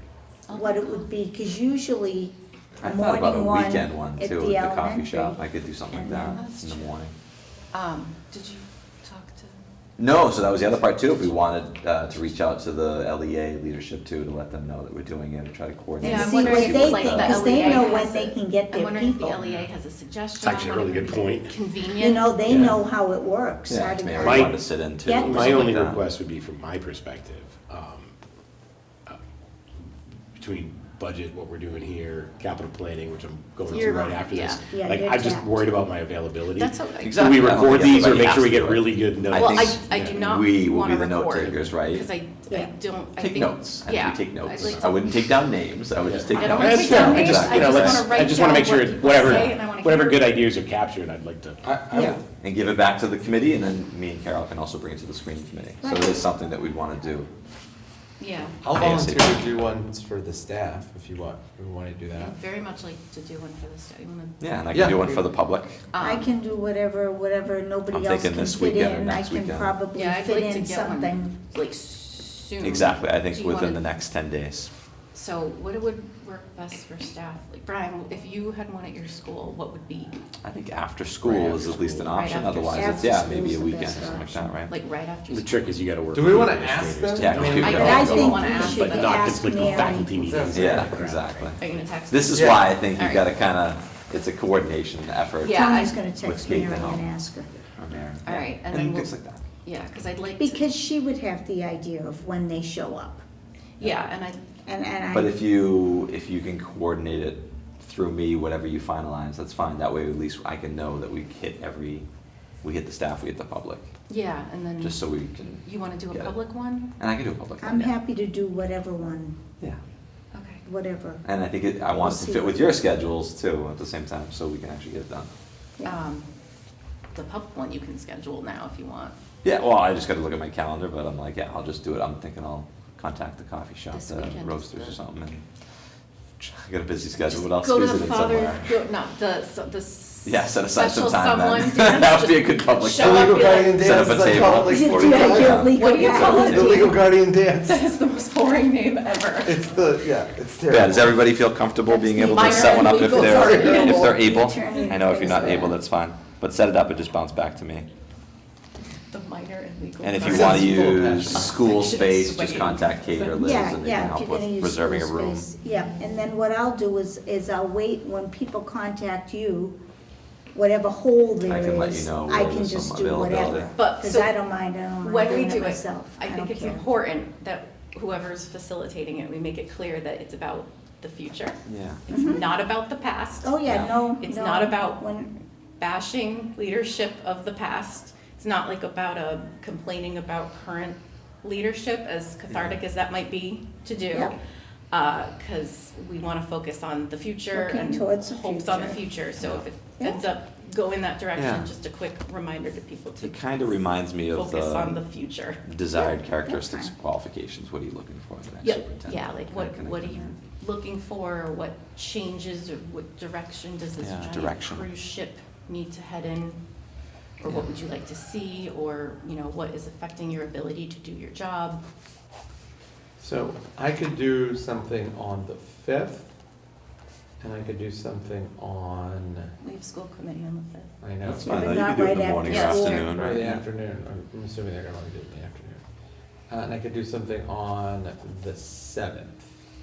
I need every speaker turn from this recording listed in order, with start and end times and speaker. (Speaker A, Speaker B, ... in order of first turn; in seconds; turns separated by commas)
Speaker A: 0.5-1.1, Speaker B: 0.5-5.4, Speaker C: 2.8-7.1, Speaker B: 5.9-6.4, Speaker A: 5.9-6.9, Speaker A: 7.7-9.6, Speaker C: 10.0-17.9, Speaker A: 16.0-22.3, Speaker B: 16.0-19.4, Speaker D: 20.4-21.6, Speaker B: 22.0-25.7, Speaker C: 22.5-22.8, Speaker C: 23.7-26.0, Speaker D: 24.1-24.6, Speaker D: 25.1-28.2, Speaker D: 30.3-40.2, Speaker A: 33.7-34.6, Speaker B: 34.7-35.6, Speaker A: 36.5-38.3, Speaker C: 37.0-42.1, Speaker A: 39.3-45.1, Speaker C: 43.2-48.1, Speaker D: 44.6-44.9, Speaker D: 46.0-51.8, Speaker A: 46.3-50.3, Speaker E: 51.6-52.2, Speaker B: 51.9-52.2, Speaker C: 52.2-57.3, Speaker B: 55.8-56.3, Speaker A: 58.2-58.6, Speaker E: 58.6-62.4, Speaker C: 58.6-59.3, Speaker A: 62.1-64.4, Speaker C: 64.4-65.8, Speaker E: 64.7-65.2, Speaker A: 65.9-66.3, Speaker B: 66.0-71.3, Speaker C: 67.9-69.8, Speaker A: 69.9-73.8, Speaker C: 72.6-74.7, Speaker A: 75.1-80.1, Speaker C: 80.4-84.7, Speaker D: 81.2-82.1, Speaker A: 81.6-85.5, Speaker B: 82.7-84.5, Speaker D: 85.3-91.2, Speaker E: 86.1-88.1, Speaker C: 87.2-88.5, Speaker A: 87.6-89.5, Speaker B: 87.7-90.5, Speaker E: 90.2-91.2, Speaker C: 90.5-97.1, Speaker A: 91.6-93.3, Speaker E: 92.3-92.6, Speaker A: 95.4-96.0, Speaker B: 95.5-97.5, Speaker C: 97.8-99.4, Speaker A: 98.2-99.1, Speaker A: 99.6-100.7, Speaker B: 100.4-103.2, Speaker A: 103.8-104.4, Speaker B: 104.7-105.4, Speaker C: 105.1-112.1, Speaker C: 112.6-113.9, Speaker A: 114.1-115.0, Speaker C: 114.8-116.4, Speaker A: 115.6-116.9, Speaker C: 117.0-118.0, Speaker B: 117.6-119.4, Speaker A: 120.3-120.6, Speaker B: 120.7-121.2, Speaker C: 121.2-125.3, Speaker B: 122.0-122.6, Speaker A: 125.8-126.3, Speaker A: 127.1-129.2, Speaker C: 129.4-135.4, Speaker A: 133.9-134.9, Speaker C: 136.4-138.8, Speaker A: 137.3-144.0, Speaker C: 140.2-147.0, Speaker E: 143.0-145.7, Speaker B: 144.6-146.9, Speaker A: 145.7-149.7, Speaker E: 146.3-147.8, Speaker E: 149.4-151.2, Speaker C: 150.7-157.9, Speaker B: 151.9-155.8, Speaker A: 152.2-155.2, Speaker E: 153.4-153.9, Speaker A: 159.1-163.4, Speaker C: 160.0-165.4, Speaker E: 160.2-161.6, Speaker B: 163.4-169.8, Speaker A: 165.6-166.3, Speaker B: 170.5-176.9, Speaker C: 171.5-173.7, Speaker A: 173.5-174.4, Speaker A: 175.0-185.0, Speaker C: 181.7-182.0, Speaker B: 182.1-182.5, Speaker B: 183.4-185.4, Speaker C: 183.6-183.9, Speaker A: 185.8-194.3, Speaker C: 192.5-192.8, Speaker A: 194.9-203.6, Speaker B: 197.5-199.0, Speaker C: 199.4-199.7, Speaker C: 201.3-201.7, Speaker C: 203.2-205.0, Speaker A: 204.3-205.6, Speaker C: 205.6-210.3, Speaker B: 205.9-206.9, Speaker A: 208.6-216.6, Speaker C: 214.0-214.9, Speaker A: 217.4-221.8, Speaker E: 223.2-226.3, Speaker E: 227.4-229.5, Speaker A: 229.6-230.9, Speaker E: 231.0-231.6, Speaker C: 231.2-233.6, Speaker B: 231.4-233.0, Speaker A: 232.4-233.2, Speaker E: 233.1-235.8, Speaker E: 236.5-239.4